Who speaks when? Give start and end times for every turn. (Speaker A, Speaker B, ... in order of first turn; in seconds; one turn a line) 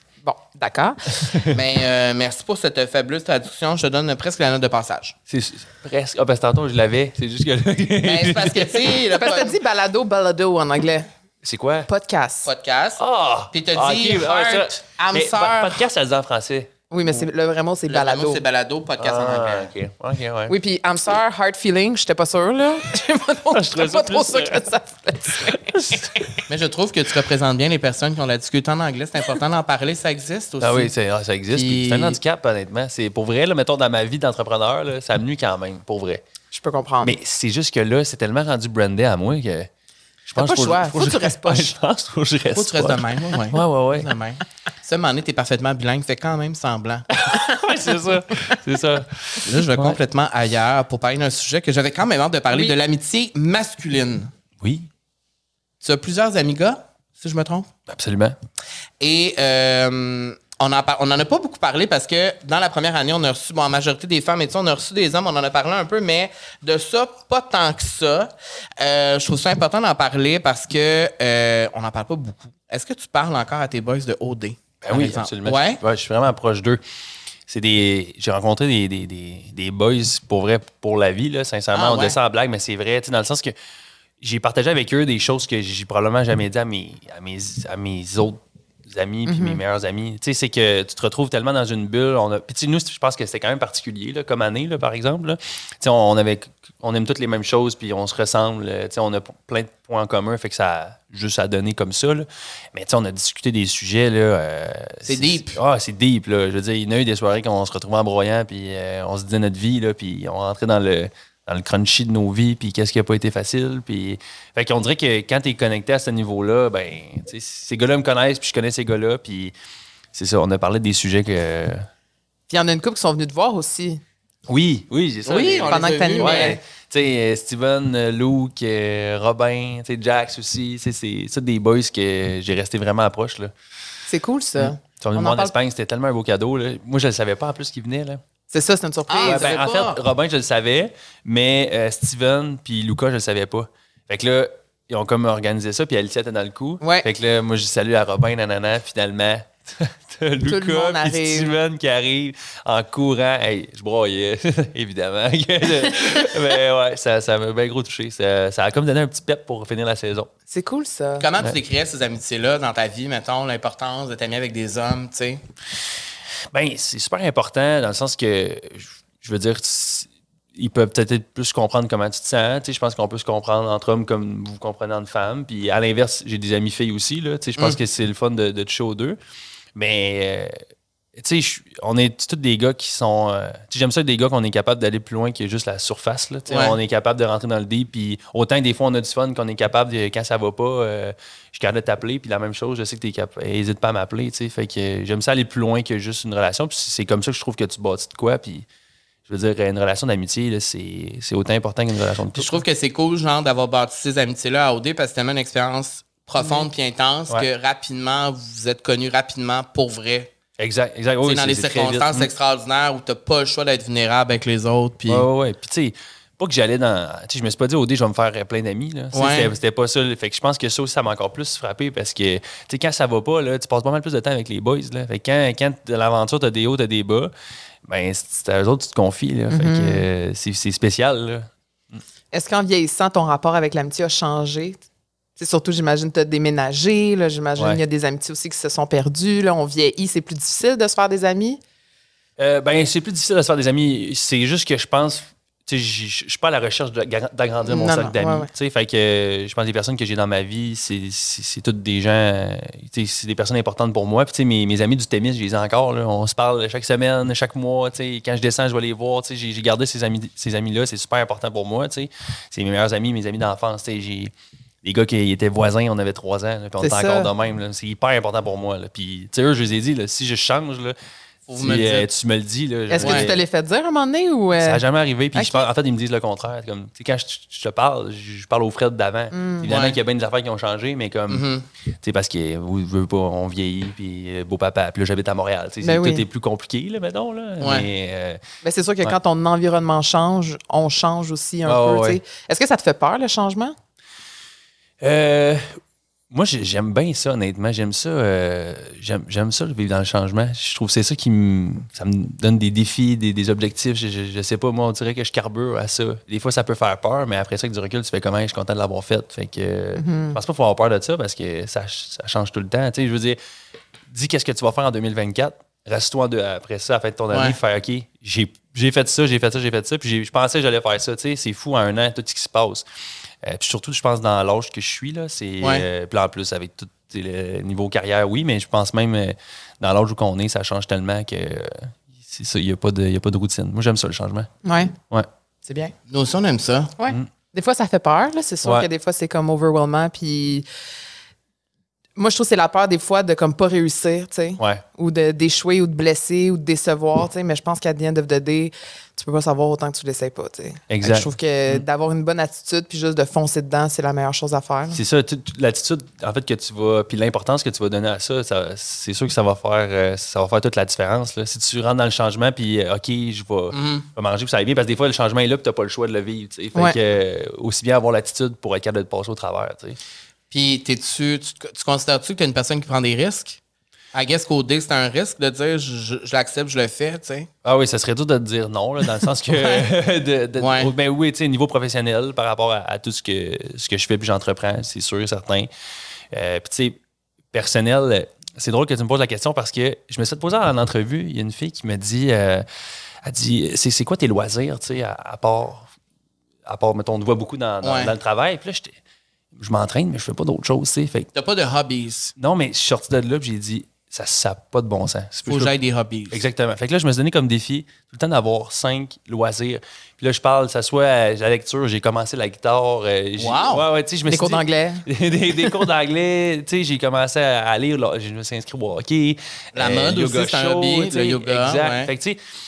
Speaker A: 0.2-1.4
Speaker B: 1.3-1.6
Speaker C: 1.5-5.2
Speaker B: 5.3-8.8
Speaker C: 8.0-9.5
Speaker A: 9.1-11.1
Speaker B: 11.4-11.9
Speaker A: 11.9-12.5
Speaker C: 12.4-15.8
Speaker B: 13.0-16.7
Speaker A: 16.9-18.4
Speaker C: 17.9-19.7
Speaker B: 19.0-20.6
Speaker A: 20.5-25.6
Speaker B: 23.5-24.7
Speaker B: 25.3-26.4
Speaker C: 26.5-30.9
Speaker B: 30.6-36.2
Speaker C: 31.5-32.2
Speaker A: 36.5-37.1
Speaker B: 37.0-39.7
Speaker B: 40.2-44.1
Speaker A: 40.4-41.7
Speaker C: 42.5-47.1
Speaker B: 47.1-50.0
Speaker C: 49.4-54.3
Speaker B: 54.6-54.9
Speaker C: 55.8-57.7
Speaker B: 57.9-58.4
Speaker C: 59.0-75.8
Speaker B: 74.8-76.8
Speaker B: 77.5-83.5
Speaker C: 81.7-82.2
Speaker B: 84.2-119.5
Speaker A: 89.2-89.6
Speaker C: 105.0-105.6
Speaker B: 120.1-121.9
Speaker A: 122.5-124.0
Speaker B: 124.5-133.5
Speaker C: 125.2-126.6
Speaker A: 125.7-126.6
Speaker A: 134.1-135.5
Speaker B: 134.6-138.2
Speaker A: 138.5-139.5
Speaker C: 139.1-140.0
Speaker B: 139.2-160.3
Speaker A: 146.8-147.1
Speaker A: 150.4-151.5
Speaker A: 160.5-161.3
Speaker C: 161.2-165.4
Speaker B: 166.5-179.2
Speaker B: 179.7-180.6
Speaker B: 181.1-198.7
Speaker C: 186.5-186.8
Speaker B: 199.2-202.6
Speaker C: 202.3-210.3
Speaker B: 210.6-212.3
Speaker C: 211.2-215.3
Speaker B: 215.1-227.3
Speaker C: 219.1-219.5
Speaker B: 227.8-232.0
Speaker A: 229.5-230.0
Speaker A: 232.3-234.8
Speaker A: 235.4-241.6
Speaker B: 242.4-270.9
Speaker A: 247.6-248.5
Speaker A: 266.8-267.3
Speaker C: 271.5-272.1
Speaker B: 271.6-273.4
Speaker A: 272.9-274.8
Speaker C: 273.0-273.3
Speaker B: 274.6-281.4
Speaker A: 275.3-275.7
Speaker A: 279.3-279.7
Speaker C: 279.6-280.0
Speaker C: 281.3-281.6
Speaker B: 282.0-288.4
Speaker A: 285.8-286.2
Speaker C: 287.6-287.9
Speaker A: 288.6-293.8
Speaker B: 291.6-292.2
Speaker B: 295.0-295.8
Speaker B: 296.3-313.4
Speaker A: 309.9-310.4
Speaker B: 314.1-322.9
Speaker C: 317.3-317.6
Speaker B: 323.4-334.5
Speaker C: 325.6-325.9
Speaker A: 334.6-334.9
Speaker A: 335.6-335.9
Speaker C: 336.1-336.9
Speaker A: 337.0-340.6
Speaker A: 342.1-355.0
Speaker B: 350.9-351.8
Speaker B: 354.9-370.0
Speaker C: 363.7-364.1
Speaker C: 370.5-373.6
Speaker C: 374.1-377.5
Speaker B: 377.6-385.7
Speaker C: 380.6-380.9
Speaker B: 386.3-387.0
Speaker B: 387.5-392.6
Speaker B: 393.2-395.9
Speaker B: 396.6-399.0
Speaker C: 397.8-398.1
Speaker B: 399.5-401.3
Speaker C: 401.3-402.3
Speaker B: 402.4-405.7
Speaker C: 405.5-406.4
Speaker B: 406.3-422.4
Speaker C: 413.4-413.8
Speaker A: 414.2-415.0
Speaker C: 419.7-422.1